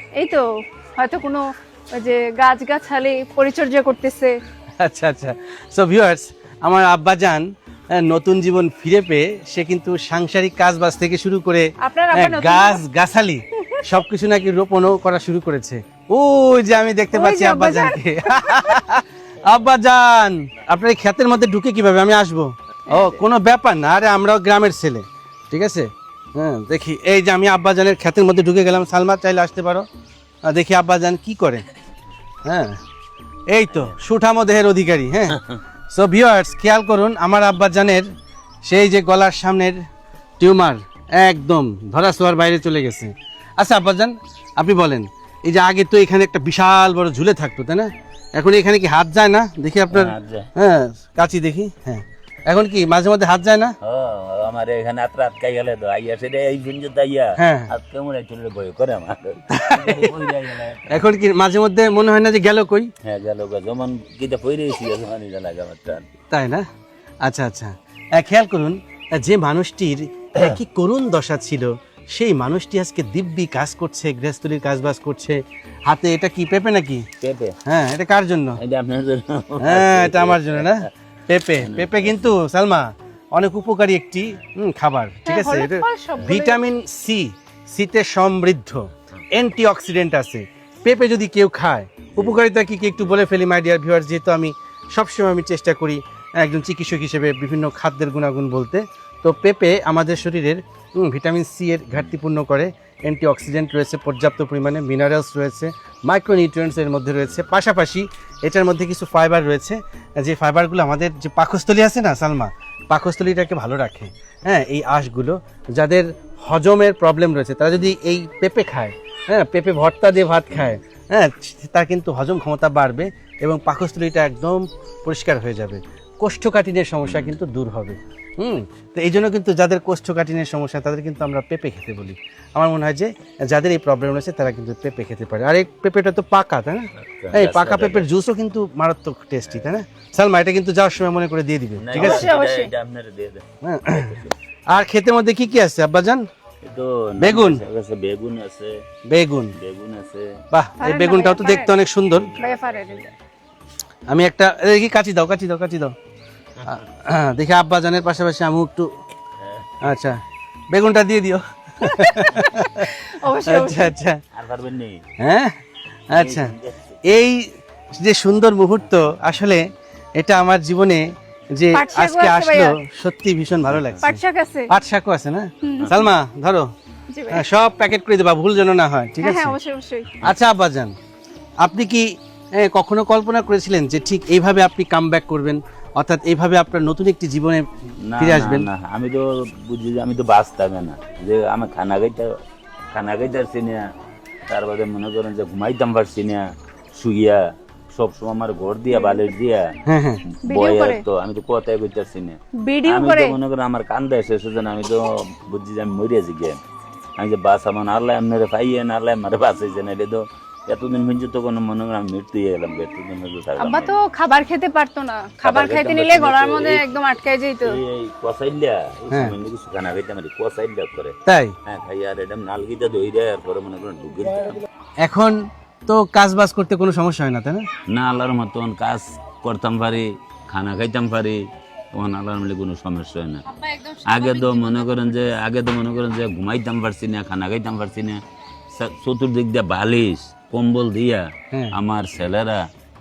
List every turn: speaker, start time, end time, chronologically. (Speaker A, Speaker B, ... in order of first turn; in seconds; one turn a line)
Speaker A: 0.2-4.4
Speaker B: 4.8-29.9
Speaker A: 11.8-12.8
Speaker A: 17.1-18.8
Speaker A: 22.9-23.2
Speaker B: 30.5-31.6
Speaker B: 32.5-32.8
Speaker B: 33.5-38.1
Speaker B: 38.7-39.8
Speaker B: 40.4-53.8
Speaker C: 49.9-50.5
Speaker C: 53.8-61.1
Speaker B: 57.4-57.7
Speaker B: 59.5-60.2
Speaker B: 60.9-62.9
Speaker C: 63.0-66.1
Speaker B: 66.3-66.7
Speaker B: 67.2-77.1
Speaker C: 77.2-77.6
Speaker B: 77.7-78.6
Speaker C: 78.6-80.9
Speaker B: 79.6-142.3
Speaker C: 81.6-82.3
Speaker A: 85.3-86.6
Speaker C: 127.0-127.3
Speaker C: 137.0-138.1
Speaker C: 141.8-144.4
Speaker A: 142.0-142.7
Speaker B: 143.6-144.1
Speaker B: 144.7-146.2
Speaker C: 146.6-148.8
Speaker B: 147.2-147.6
Speaker B: 149.1-149.6
Speaker C: 149.6-150.4
Speaker B: 150.5-152.3
Speaker A: 150.8-151.7
Speaker C: 152.1-153.1
Speaker A: 152.4-153.1
Speaker B: 154.1-155.9
Speaker B: 156.7-158.9
Speaker C: 159.4-159.7
Speaker B: 159.8-164.2
Speaker A: 161.8-163.9
Speaker C: 164.3-165.1
Speaker B: 165.2-165.6
Speaker B: 166.1-166.5
Speaker C: 166.2-167.0
Speaker B: 167.0-169.7
Speaker B: 170.2-176.7
Speaker A: 171.7-172.8
Speaker A: 174.0-174.7
Speaker A: 175.6-175.9
Speaker A: 177.1-177.4
Speaker B: 177.3-179.6
Speaker A: 179.2-180.2
Speaker B: 180.2-180.9
Speaker B: 181.6-188.7
Speaker C: 188.1-192.4
Speaker C: 192.9-193.9
Speaker C: 194.5-199.8
Speaker A: 198.9-199.3
Speaker B: 199.9-200.2
Speaker C: 200.3-206.6
Speaker A: 200.4-201.0
Speaker A: 202.6-203.4
Speaker C: 207.2-213.9
Speaker A: 213.6-217.8
Speaker C: 215.4-216.8
Speaker C: 217.6-224.6
Speaker B: 221.3-221.6
Speaker B: 225.0-227.7
Speaker C: 227.9-233.4
Speaker A: 233.5-235.3
Speaker C: 234.1-242.7